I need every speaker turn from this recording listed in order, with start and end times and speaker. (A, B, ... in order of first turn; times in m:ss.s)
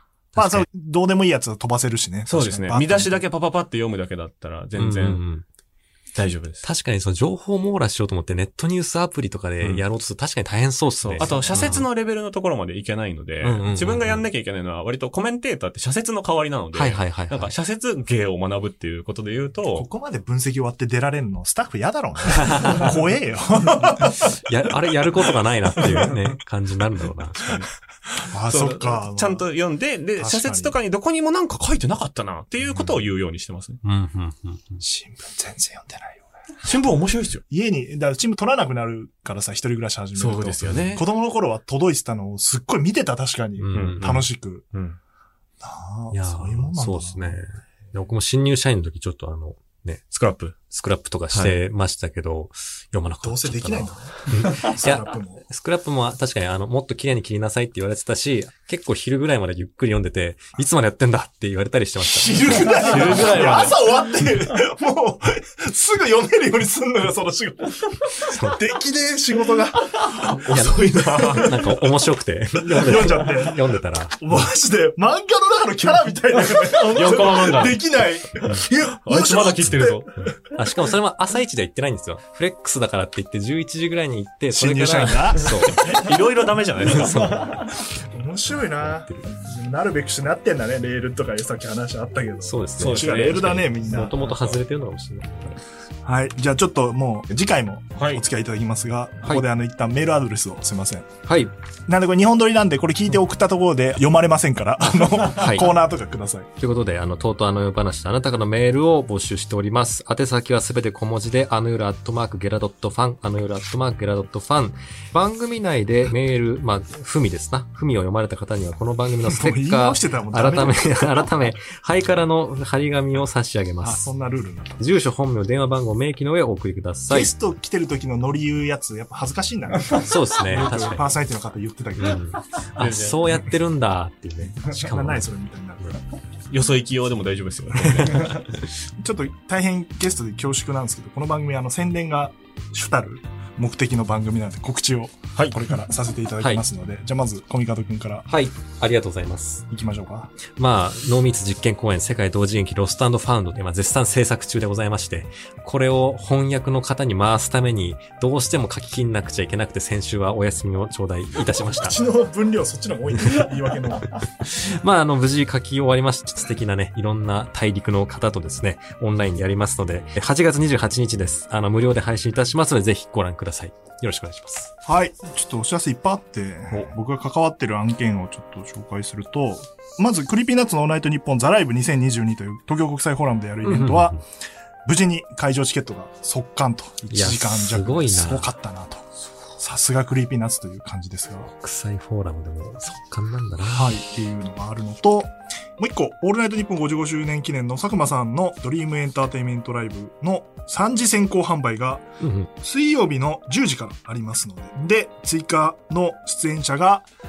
0:00.3-0:00.6 A
0:00.4-0:03.2 B
0:02.3-0:05.2 C
0:04.8-0:05.4 A
0:06.1-0:06.6 C
0:06.6-0:11.9 A
0:11.0-0:19.9 C
0:11.2-0:11.8 B
0:13.4-0:14.2 A
0:16.7-0:17.5 A
0:19.7-0:24.3 B
0:22.4-0:22.8 A
0:24.3-0:27.6 A
0:25.8-0:26.2 B
0:27.3-0:27.7 C
0:28.1-0:29.5 B
0:28.5-0:33.8 C
0:30.2-0:30.7 B
0:33.8-0:34.8 A
0:34.8-0:36.3 B
0:36.6-0:37.4 C
0:37.5-0:44.6 B
0:40.2-0:41.0 C
0:43.6-0:44.1 A
0:43.7-0:45.0 C
0:45.6-0:47.4 B
0:46.1-0:50.0 A
0:50.1-0:50.6 C
0:50.7-1:02.7 A
0:53.2-0:55.4 B
1:02.0-1:10.4 B
1:02.5-1:03.8 C
1:08.3-1:08.6 A
1:10.1-1:11.7 C
1:10.4-1:14.4 A
1:12.6-1:20.3 B
1:16.8-1:17.8 C
1:18.9-1:20.1 C
1:20.2-1:26.0 A
1:24.5-1:26.2 B
1:25.7-1:27.6 C
1:26.9-1:27.8 A
1:27.0-1:34.6 B
1:28.6-1:29.3 A
1:32.4-1:35.6 A
1:32.8-1:33.6 C
1:36.0-1:41.1 B
1:38.0-1:38.2 C
1:41.3-1:41.5 A
1:41.9-1:46.5 B
1:44.8-1:45.7 A
1:46.6-2:04.1 A
1:59.2-2:01.2 B
2:03.8-2:04.8 B
2:04.8-2:07.3 A
2:07.1-2:12.3 B
2:09.9-2:11.1 A
2:12.0-2:15.3 A
2:12.8-2:13.2 C
2:14.6-2:16.0 B
2:16.5-2:18.6 C
2:17.8-2:28.3 B
2:28.3-2:29.6 A
2:29.7-2:30.3 B
2:30.5-2:42.0 A
2:41.8-2:44.1 B
2:44.4-2:54.7 A
2:54.9-3:04.2 B
3:03.6-3:04.2 A
3:04.8-3:11.5 B
3:07.1-3:08.5 A
3:11.5-3:14.0 A
3:13.7-3:27.1 B
3:22.2-3:22.5 A